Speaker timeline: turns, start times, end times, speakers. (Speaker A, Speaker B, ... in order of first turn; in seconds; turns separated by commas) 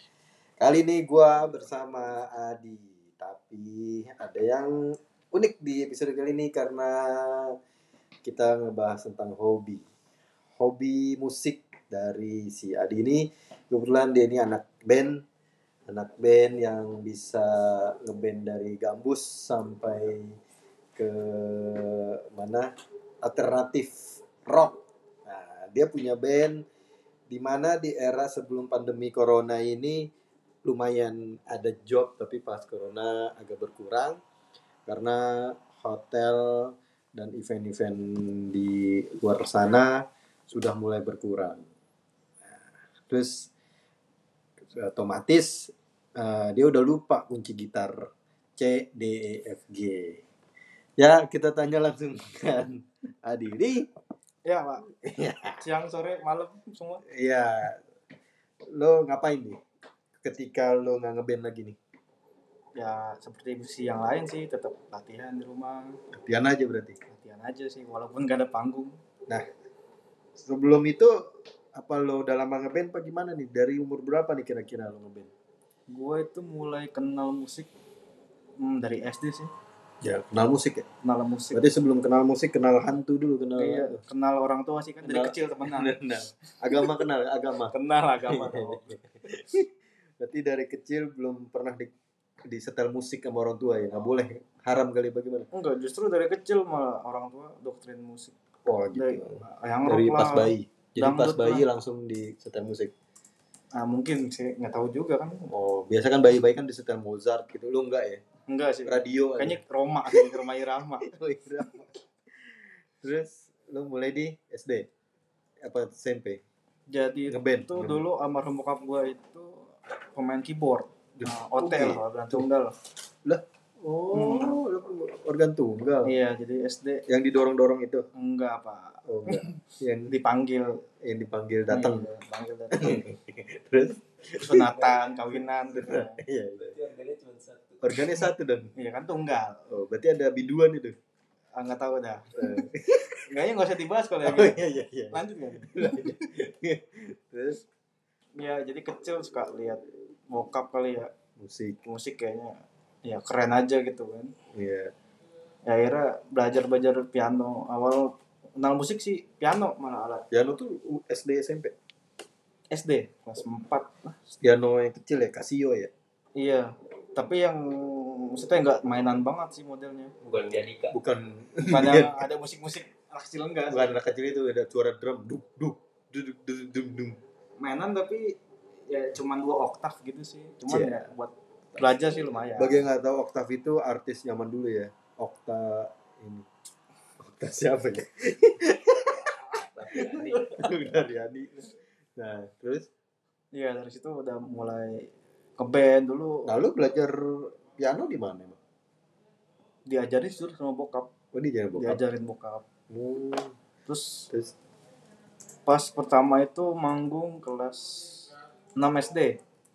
Speaker A: 0.6-4.7, Speaker A: 5.3-7.6, Speaker A: 8.2-9.8, Speaker A: 10.6-15.2, Speaker A: 15.9-20.4, Speaker A: 21.0-26.6, Speaker A: 27.3-30.1, Speaker A: 30.6-34.2, Speaker A: 34.9-41.6, Speaker A: 43.1-43.5, Speaker A: 44.7-50.2, Speaker A: 51.0-53.9, Speaker B: 54.5-54.9, Speaker A: 54.9-55.6, Speaker B: 55.6-57.0, Speaker A: 57.0-57.8, Speaker A: 58.7-59.6, Speaker A: 60.2-61.8, Speaker B: 62.8-66.0, Speaker A: 66.1-67.0, Speaker B: 67.1-69.0, Speaker A: 70.4-75.3, Speaker B: 75.9-77.7, Speaker B: 78.6-79.5, Speaker A: 80.0-80.9, Speaker B: 81.0-81.6, Speaker A: 81.5-84.0, Speaker B: 83.6-86.0, Speaker A: 85.0-89.7, Speaker B: 87.7-89.0, Speaker A: 90.2-91.9, Speaker A: 92.4-95.5, Speaker B: 95.5-98.3, Speaker A: 98.7-102.9, Speaker B: 98.9-101.7, Speaker B: 103.8-105.5, Speaker A: 105.5-108.2, Speaker B: 108.5-111.1, Speaker A: 108.9-110.5, Speaker A: 111.0-111.9, Speaker A: 113.0-114.9, Speaker A: 115.6-116.4, Speaker B: 116.9-122.7, Speaker A: 117.3-118.0, Speaker A: 121.2-122.5, Speaker A: 123.2-126.1, Speaker B: 124.1-124.6, Speaker B: 126.0-127.0, Speaker A: 127.1-128.1, Speaker B: 128.2-130.8, Speaker A: 129.1-130.1, Speaker A: 131.0-132.1, Speaker B: 131.7-133.1, Speaker A: 132.7-134.8, Speaker B: 134.3-136.2, Speaker A: 135.3-136.8, Speaker C: 136.6-137.8, Speaker A: 137.8-138.7, Speaker B: 138.8-139.6, Speaker A: 139.7-141.0, Speaker B: 141.6-144.6, Speaker A: 142.3-143.2, Speaker A: 144.2-147.6, Speaker B: 145.1-146.1, Speaker B: 148.4-151.1, Speaker A: 151.4-151.8, Speaker B: 151.8-154.3, Speaker A: 154.5-154.9, Speaker B: 155.7-160.2, Speaker A: 160.3-161.7, Speaker B: 162.7-164.3, Speaker A: 164.4-165.9, Speaker B: 166.4-170.1, Speaker C: 170.2-171.0, Speaker A: 170.9-172.2, Speaker B: 171.6-174.0, Speaker A: 173.7-177.2, Speaker B: 177.6-178.4, Speaker B: 178.9-182.8, Speaker A: 180.7-181.1, Speaker A: 182.4-186.5, Speaker A: 187.2-189.4, Speaker C: 189.6-190.7, Speaker A: 189.9-192.9, Speaker B: 193.5-196.5, Speaker A: 196.4-198.6, Speaker B: 199.9-201.1, Speaker A: 201.3-202.0, Speaker B: 201.8-202.7, Speaker A: 202.9-203.6, Speaker B: 203.9-204.3, Speaker B: 205.7-209.4